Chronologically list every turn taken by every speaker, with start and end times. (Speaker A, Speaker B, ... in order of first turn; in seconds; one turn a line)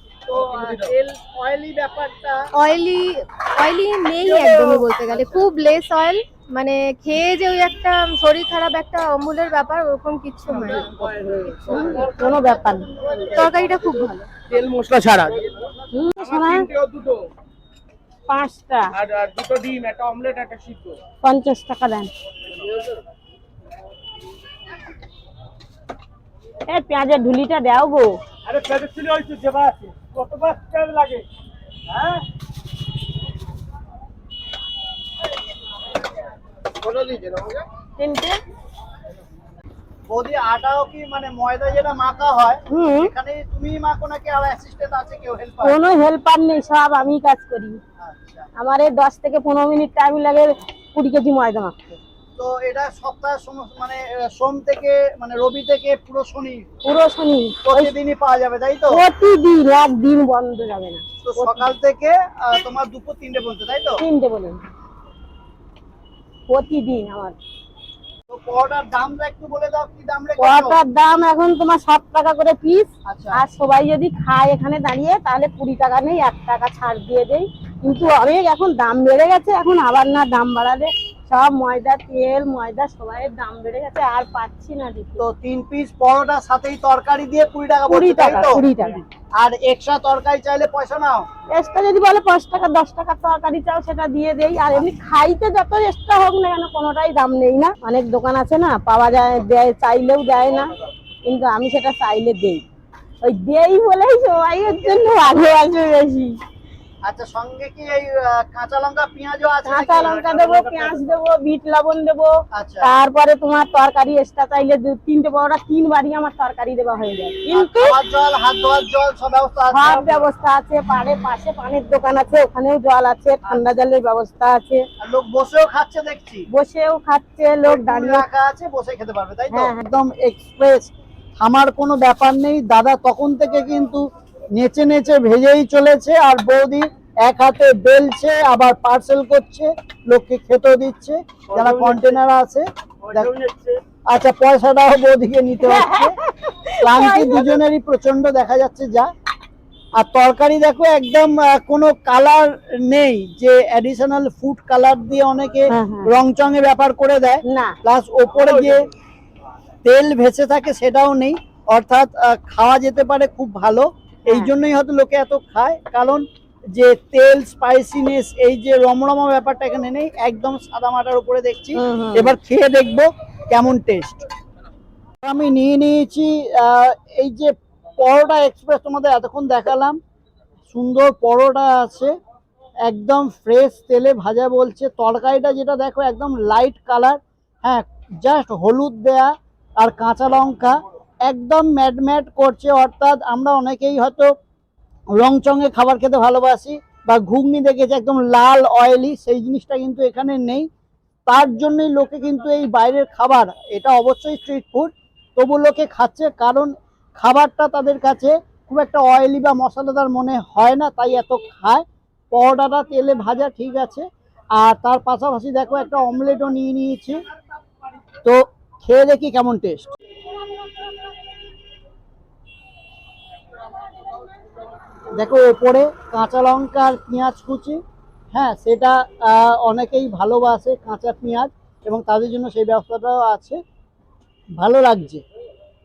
Speaker A: 0.3-2.5
Speaker B: 2.5-11.0
Speaker A: 4.3-4.7
Speaker A: 10.6-13.9
Speaker C: 11.0-12.1
Speaker D: 11.7-12.9
Speaker B: 13.3-14.3
Speaker C: 14.5-15.7
Speaker D: 15.9-16.7
Speaker C: 16.2-17.3
Speaker D: 18.3-18.9
Speaker C: 18.9-21.0
Speaker D: 21.2-22.1
Speaker C: 22.6-22.9
Speaker D: 26.7-28.2
Speaker C: 28.4-31.2
Speaker C: 36.8-37.6
Speaker D: 38.0-38.4
Speaker A: 40.1-45.8
Speaker D: 42.7-43.1
Speaker D: 45.6-47.8
Speaker A: 48.0-48.5
Speaker D: 48.5-52.0
Speaker A: 52.4-56.7
Speaker D: 56.8-57.9
Speaker A: 57.6-59.0
Speaker D: 58.9-61.7
Speaker A: 61.2-64.0
Speaker D: 64.0-64.6
Speaker D: 66.5-67.4
Speaker A: 68.3-70.8
Speaker D: 70.4-85.2
Speaker A: 73.0-73.4
Speaker A: 85.2-88.7
Speaker D: 87.9-89.0
Speaker A: 89.3-91.3
Speaker D: 91.5-100.7
Speaker D: 101.2-102.6
Speaker D: 103.2-106.4
Speaker A: 104.6-105.5
Speaker A: 107.0-111.0
Speaker D: 109.7-118.0
Speaker A: 112.5-112.9
Speaker A: 117.5-120.3
Speaker D: 119.7-124.8
Speaker A: 125.0-126.5
Speaker D: 126.5-128.2
Speaker A: 127.6-143.3
Speaker D: 129.5-129.8
Speaker C: 141.5-142.2
Speaker C: 143.1-143.8
Speaker A: 144.1-146.2
Speaker D: 145.6-147.6
Speaker A: 146.8-149.1
Speaker A: 149.9-158.9
Speaker D: 155.7-156.2
Speaker D: 157.4-157.8
Speaker A: 159.8-174.2
Speaker D: 164.3-164.5
Speaker D: 171.7-172.3
Speaker A: 175.2-180.0
Speaker A: 180.7-182.1
Speaker A: 182.8-194.3
Speaker A: 195.2-200.7
Speaker A: 201.3-217.2
Speaker A: 218.2-219.9
Speaker A: 225.1-227.8
Speaker A: 228.3-233.6
Speaker A: 234.6-235.2